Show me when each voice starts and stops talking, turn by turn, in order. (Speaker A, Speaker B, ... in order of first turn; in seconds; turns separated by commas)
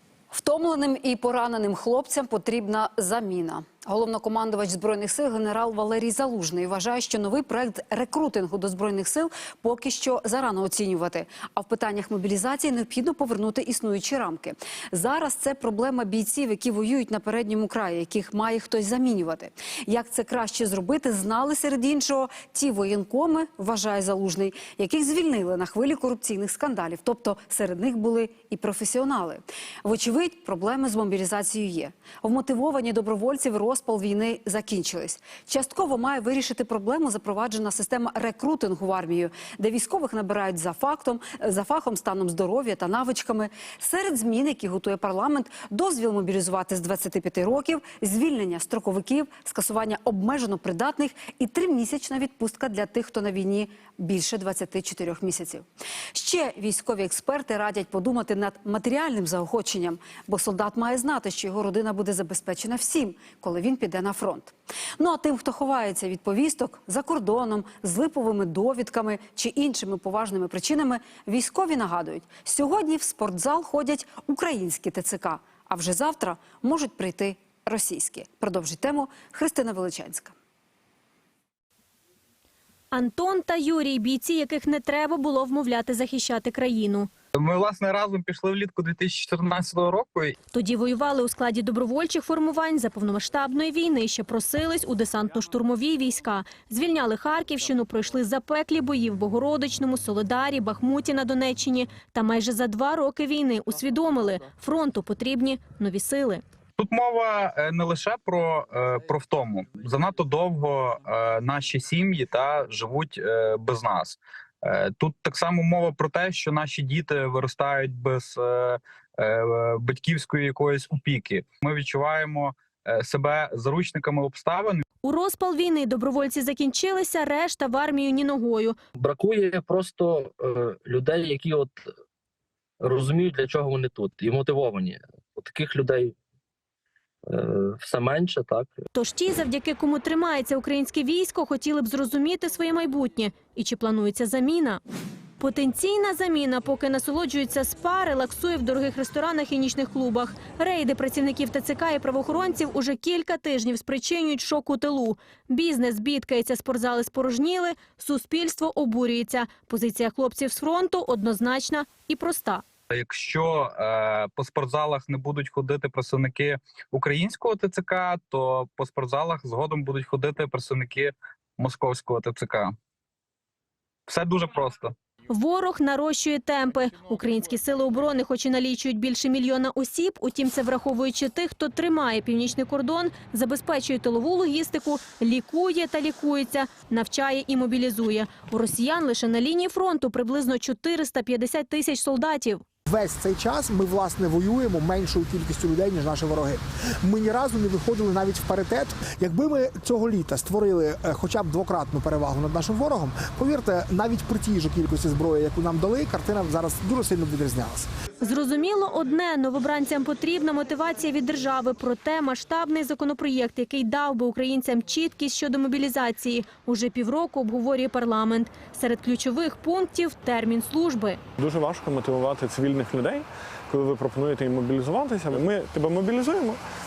Speaker A: 0.3-80.3, Speaker B: 82.9-87.1, Speaker C: 87.3-90.4, Speaker B: 90.5-106.4, Speaker C: 106.8-124.8, Speaker B: 125.0-128.8, Speaker D: 129.0-131.8, Speaker D: 132.8-136.2, Speaker D: 137.3-138.7, Speaker B: 138.9-144.8, Speaker B: 145.4-162.6, Speaker C: 162.9-172.7, Speaker C: 174.1-174.9, Speaker B: 175.3-192.6, Speaker E: 192.9-207.9, Speaker B: 208.2-221.2, Speaker F: 221.4-226.6